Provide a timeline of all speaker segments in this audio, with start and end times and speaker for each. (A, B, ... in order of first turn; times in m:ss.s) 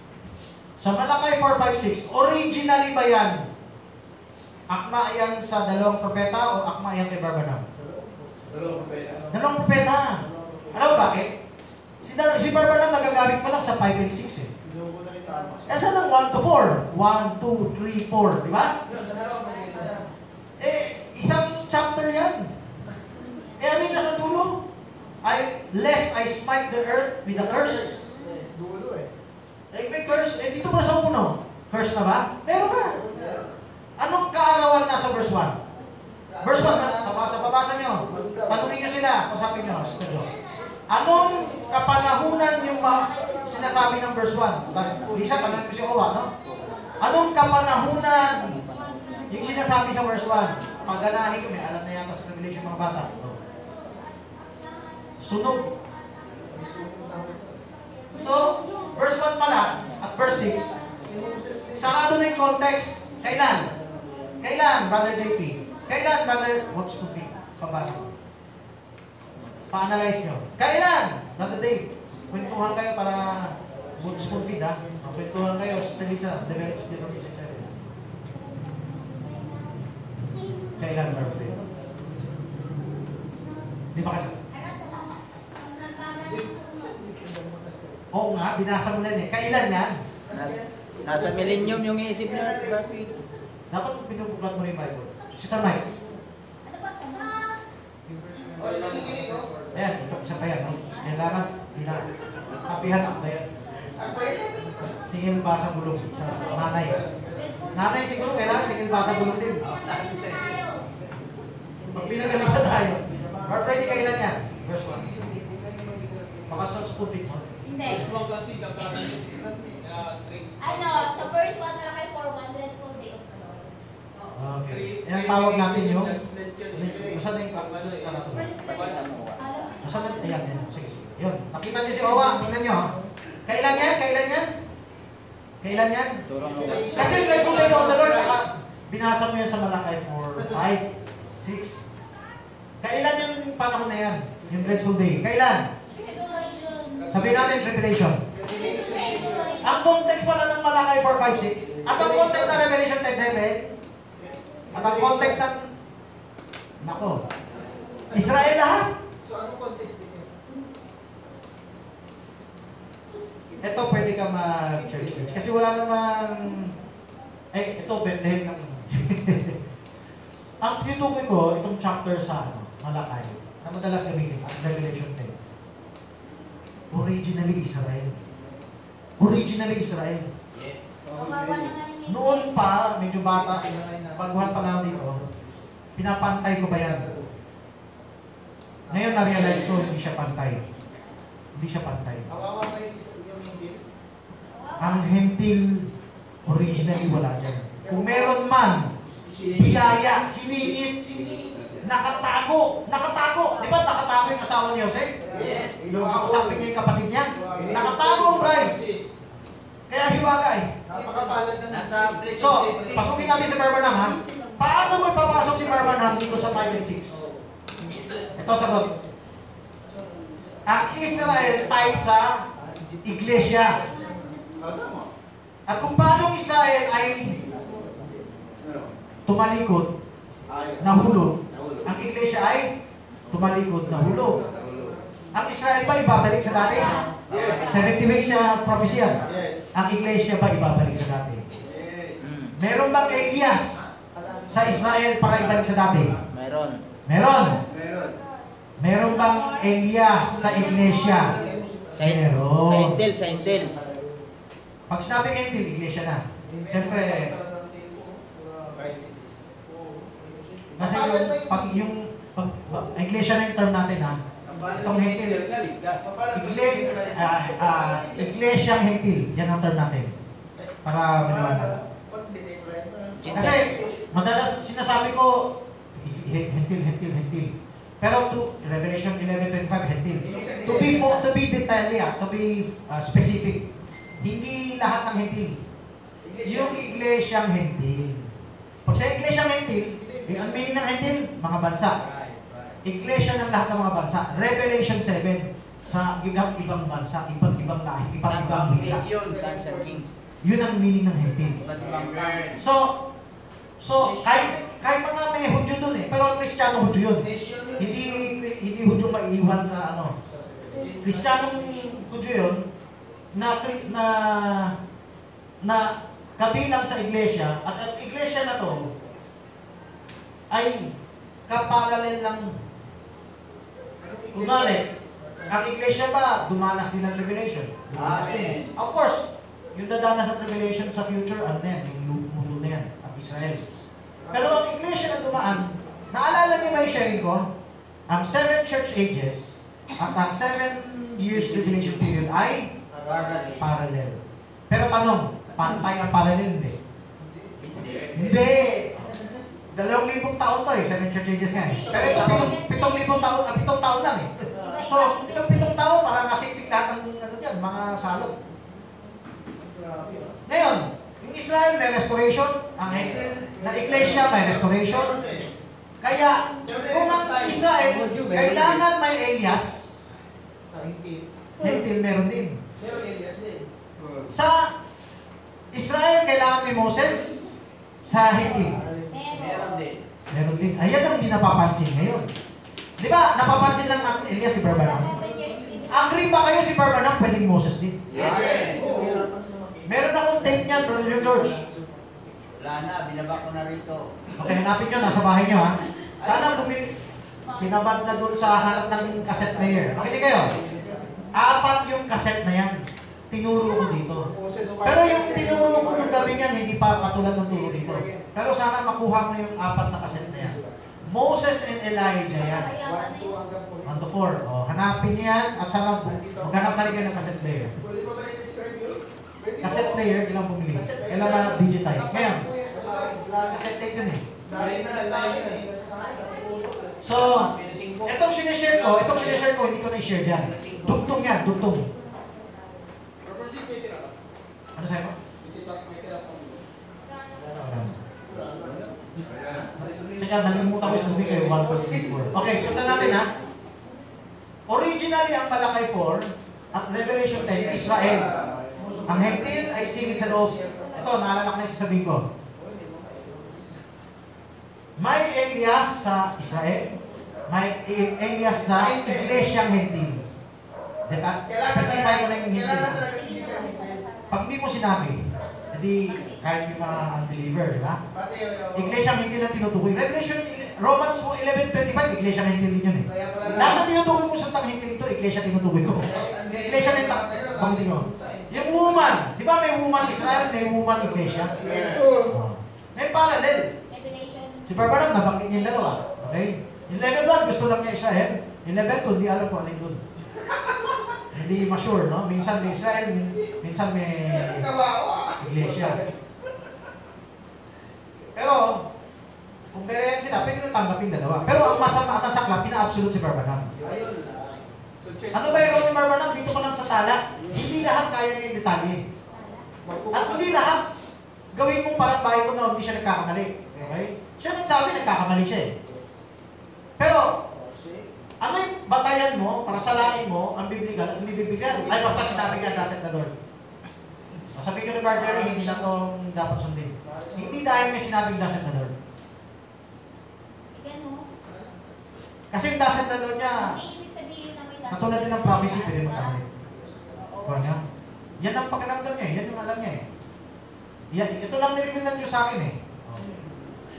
0:00.8-0:03.4 A
0:04.7-0:07.6 A
0:07.8-0:08.6 B
0:08.5-0:09.3 C
0:09.3-0:11.3 A
0:10.2-0:11.2 B
0:12.0-0:14.5 A
0:14.6-0:15.8 B
0:15.7-0:18.7 A
0:18.9-0:20.0 B
0:19.3-0:19.9 D
0:20.6-0:22.5 A
0:23.4-0:24.1 D
0:23.6-0:24.6 A
0:25.2-0:27.9 A
0:27.4-0:29.1 B
0:29.7-0:33.0 A
0:32.6-0:33.5 B
0:34.0-0:35.6 A
0:36.3-0:38.9 B
0:36.4-0:40.3 A
0:40.6-0:43.9 D
0:40.9-0:46.3 A
0:44.6-0:45.7 B
0:47.0-0:48.6 A
0:48.2-0:49.8 D
0:49.3-0:53.4 A
0:55.2-0:55.7 A
0:56.5-0:57.6 B
0:58.1-0:59.0 D
0:58.2-1:00.7 A
1:00.3-1:01.1 D
1:01.1-1:01.9 B
1:01.7-1:03.7 A
1:03.5-1:04.3 C
1:04.4-1:08.1 A
1:09.7-1:17.7 A
1:14.3-1:15.4 B
1:20.8-1:21.6 A
1:20.9-1:22.5 B
1:23.9-1:24.4 A
1:24.5-1:27.0 D
1:26.2-1:28.0 B
1:28.1-1:30.0 A
1:30.3-1:33.2 B
1:30.3-1:33.2 E
1:33.7-1:35.8 A
1:35.5-1:36.2 B
1:36.6-1:37.6 D
1:38.1-1:40.0 B
1:38.6-1:39.4 F
1:39.7-1:43.5 A
1:40.7-1:43.0 D
1:44.0-1:45.0 B
1:45.0-1:47.0 A
1:45.8-1:50.9 D
1:46.3-1:47.7 B
1:47.7-1:49.6 A
1:49.6-1:50.6 G
1:51.9-1:56.9 B
1:51.9-1:55.1 A
1:56.5-1:58.1 A
1:57.6-1:58.1 D
1:57.8-2:01.5 F
1:59.1-1:59.9 B
2:00.6-2:03.8 D
2:04.2-2:09.0 F
2:04.4-2:06.2 A
2:06.7-2:08.5 A
2:06.8-2:07.2 B
2:08.3-2:10.7 D
2:08.6-2:09.8 E
2:09.8-2:12.9 A
2:12.0-2:13.0 B
2:13.5-2:14.5 A
2:15.6-2:16.2 A
2:16.3-2:17.4 E
2:16.4-2:17.9 B
2:16.7-2:18.5 F
2:16.8-2:17.9 D
2:16.9-2:20.9 A
2:20.4-2:20.8 B
2:21.4-2:21.8 A
2:22.8-2:25.7 A
2:25.9-2:27.3 D
2:27.0-2:27.6 F
2:27.1-2:28.2 A
2:28.3-2:29.6 B
2:28.4-2:30.0 D
2:29.6-2:33.6 A
2:31.7-2:32.7 B
2:34.2-2:35.5 B
2:34.7-2:35.7 A
2:36.8-2:37.2 A
2:38.1-2:38.9 A
2:39.2-2:40.3 B
2:43.5-2:44.0 B
2:43.6-2:46.7 A
2:44.7-2:45.5 B
2:47.5-2:49.6 A
2:50.6-2:55.3 A
2:56.9-2:58.2 A
2:59.2-3:00.3 A
3:00.5-3:00.9 C
3:01.1-3:01.7 E
3:01.1-3:02.8 D
3:02.1-3:05.2 A
3:03.2-3:05.5 B
3:06.0-3:07.1 A
3:06.7-3:07.3 B
3:08.9-3:09.6 B
3:08.9-3:10.6 A
3:09.4-3:09.8 C
3:09.9-3:10.7 D
3:11.6-3:12.3 A
3:12.3-3:13.8 B
3:14.5-3:15.1 D
3:14.8-3:15.8 A
3:16.4-3:18.9 A
3:17.9-3:18.3 B
3:19.2-3:22.2 C
3:19.6-3:21.0 A
3:21.0-3:21.7 B
3:21.8-3:25.1 A
3:23.4-3:24.2 D
3:25.2-3:26.7 B
3:25.3-3:25.8 C
3:25.3-3:25.8 G
3:25.8-3:28.7 A
3:27.4-3:28.0 B
3:27.5-3:29.0 C
3:27.5-3:27.9 G
3:29.9-3:30.7 A
3:30.9-3:33.1 B
3:30.9-3:33.6 G
3:32.4-3:37.2 A
3:34.0-3:36.6 B
3:35.6-3:36.6 G
3:36.1-3:36.7 C
3:37.9-3:39.1 B
3:38.4-3:38.9 A
3:40.7-3:42.4 A
3:41.0-3:41.7 C
3:41.3-3:42.0 B
3:42.6-3:44.1 B
3:43.0-3:43.8 A
3:45.7-3:47.4 A
3:47.1-3:48.3 B
3:48.6-3:48.9 C
3:49.3-3:49.9 A
3:50.5-3:51.9 C
3:50.8-3:52.7 A
3:53.3-3:54.4 A
3:53.9-3:56.3 B
3:53.9-3:55.0 C
3:55.3-3:57.0 A
3:56.4-3:58.7 D
3:57.3-3:58.2 C
3:57.3-3:57.8 G
3:57.6-4:01.4 A
3:59.0-3:59.5 C
3:59.2-3:59.5 G
4:01.6-4:02.2 G
4:02.2-4:02.6 E
4:02.6-4:03.9 A
4:04.1-4:05.1 B
4:04.5-4:06.2 A
4:05.2-4:06.2 C
4:06.3-4:06.8 E
4:07.1-4:07.6 A
4:07.7-4:08.2 G
4:08.8-4:11.4 A
4:09.0-4:11.0 D
4:10.4-4:11.9 C
4:10.7-4:11.7 B
4:11.0-4:11.6 G
4:11.9-4:13.7 E
4:12.0-4:13.0 A
4:13.0-4:14.3 B
4:14.9-4:17.3 A
4:16.5-4:17.0 B
4:16.7-4:17.9 C
4:18.4-4:19.8 B
4:20.7-4:21.9 B
4:20.8-4:24.2 A
4:24.5-4:26.3 C
4:24.5-4:25.4 G
4:24.8-4:25.4 A
4:26.0-4:28.2 B
4:26.3-4:30.1 A
4:30.8-4:31.8 A
4:31.2-4:33.5 B
4:33.2-4:33.7 E
4:33.3-4:43.6 A
4:33.4-4:33.8 C
4:40.3-4:41.2 B
4:40.4-4:40.8 C
4:44.2-4:45.6 A
4:46.3-4:46.8 B
4:46.4-4:48.3 A
4:48.9-4:52.0 A
4:49.8-4:50.7 B
4:52.0-4:52.8 C
4:52.8-4:59.0 A
4:58.2-5:00.2 E
4:58.8-5:00.0 B
5:00.4-5:01.6 A
5:01.6-5:02.6 E
5:01.7-5:02.6 C
5:01.8-5:02.3 G
5:02.6-5:03.0 A
5:03.8-5:10.2 A
5:07.2-5:08.2 C
5:10.4-5:10.9 B
5:10.7-5:12.0 C
5:11.0-5:12.7 A
5:13.4-5:14.7 A
5:15.6-5:18.9 A
5:20.5-5:20.9 A
5:21.5-5:22.5 A
5:24.0-5:25.6 B
5:24.3-5:24.9 A
5:25.5-5:33.7 A
5:28.0-5:28.7 E
5:34.2-5:34.7 B
5:34.3-5:37.5 A
5:38.1-5:42.7 A
5:42.9-5:43.6 B
5:43.0-5:43.6 E
5:43.6-5:46.8 A
5:47.2-5:48.5 B
5:47.8-5:48.1 C
5:48.2-5:48.9 A
5:49.7-5:58.4 A
5:51.5-5:53.4 D
5:51.8-5:52.5 B
5:54.5-5:55.8 D
5:59.8-6:00.3 B
6:00.5-6:05.1 A
6:03.5-6:05.5 B
6:06.0-6:09.9 A
6:06.6-6:08.8 B
6:10.6-6:11.8 B
6:11.6-6:12.6 A
6:12.8-6:14.2 B
6:14.3-6:14.7 A
6:15.7-6:17.4 A
6:18.0-6:18.8 A
6:18.5-6:19.1 B
6:19.1-6:19.9 D
6:19.3-6:20.0 G
6:20.3-6:22.3 A
6:23.0-6:25.2 A
6:24.6-6:26.5 D
6:25.9-6:28.2 A
6:28.1-6:30.0 C
6:28.1-6:28.9 G
6:28.2-6:28.7 E
6:28.2-6:29.3 B
6:29.9-6:31.6 A
6:30.3-6:32.4 B
6:32.6-6:34.0 G
6:34.4-6:36.9 A
6:37.4-6:41.2 B
6:37.6-6:40.5 A
6:41.3-6:42.8 A
6:43.3-6:52.7 A
6:44.2-6:46.5 B
6:47.4-6:48.3 B
6:50.0-6:50.8 B
6:52.3-6:53.4 D
6:52.7-6:54.1 B
6:53.9-6:57.7 A
6:56.0-6:57.9 B
6:59.4-7:00.1 B
6:59.6-7:02.5 A
7:00.7-7:03.6 B
7:02.8-7:03.1 C
7:03.4-7:04.2 A
7:04.4-7:05.7 B
7:04.5-7:05.9 G
7:04.5-7:07.0 C
7:07.0-7:07.5 A
7:07.0-7:08.2 G
7:08.0-7:11.9 A
7:08.8-7:09.3 G
7:10.4-7:11.0 G
7:11.1-7:12.9 D
7:13.2-7:14.2 F
7:14.8-7:15.2 A
7:15.4-7:16.7 F
7:17.1-7:17.5 D
7:17.5-7:18.0 A
7:18.3-7:23.2 C
7:20.2-7:23.3 A
7:24.7-7:28.3 A
7:27.3-7:30.0 C
7:27.8-7:30.6 B
7:28.4-7:28.8 G
7:29.1-7:32.2 A
7:30.7-7:31.2 D
7:35.0-7:36.9 A
7:37.5-7:40.2 A
7:38.4-7:39.5 B
7:41.1-7:43.1 A
7:41.4-7:44.0 B
7:43.0-7:44.4 D
7:44.3-7:48.0 A
7:45.4-7:46.5 D
7:48.1-7:49.0 B
7:48.7-8:01.6 A
7:53.1-7:53.9 B
7:55.9-7:59.2 B
8:00.0-8:02.3 B
8:01.6-8:01.9 G
8:02.3-8:03.7 A
8:03.9-8:04.8 D
8:04.6-8:10.0 A
8:05.5-8:06.0 D
8:11.3-8:14.7 A
8:14.3-8:16.2 B
8:15.4-8:16.1 A
8:18.4-8:18.9 A
8:19.7-8:23.8 A
8:23.8-8:24.1 B
8:23.8-8:24.6 C
8:25.0-8:25.9 B
8:25.3-8:29.0 A
8:27.4-8:27.7 C
8:29.3-8:29.6 D
8:29.8-8:30.8 B
8:30.1-8:30.9 A
8:31.5-8:35.7 A
8:33.7-8:34.0 B
8:35.8-8:36.1 B
8:37.0-8:37.4 A
8:37.5-8:38.0 C
8:38.4-8:43.3 A
8:41.6-8:42.9 B
8:44.6-8:49.0 A
8:45.1-8:45.9 B
8:47.0-8:48.0 B
8:50.7-8:51.3 D
8:52.5-8:53.8 A
8:53.5-8:56.4 D
8:54.9-8:56.5 A
8:56.5-8:57.8 B
8:57.4-8:57.8 A
8:58.4-9:00.0 A
9:01.1-9:03.3 A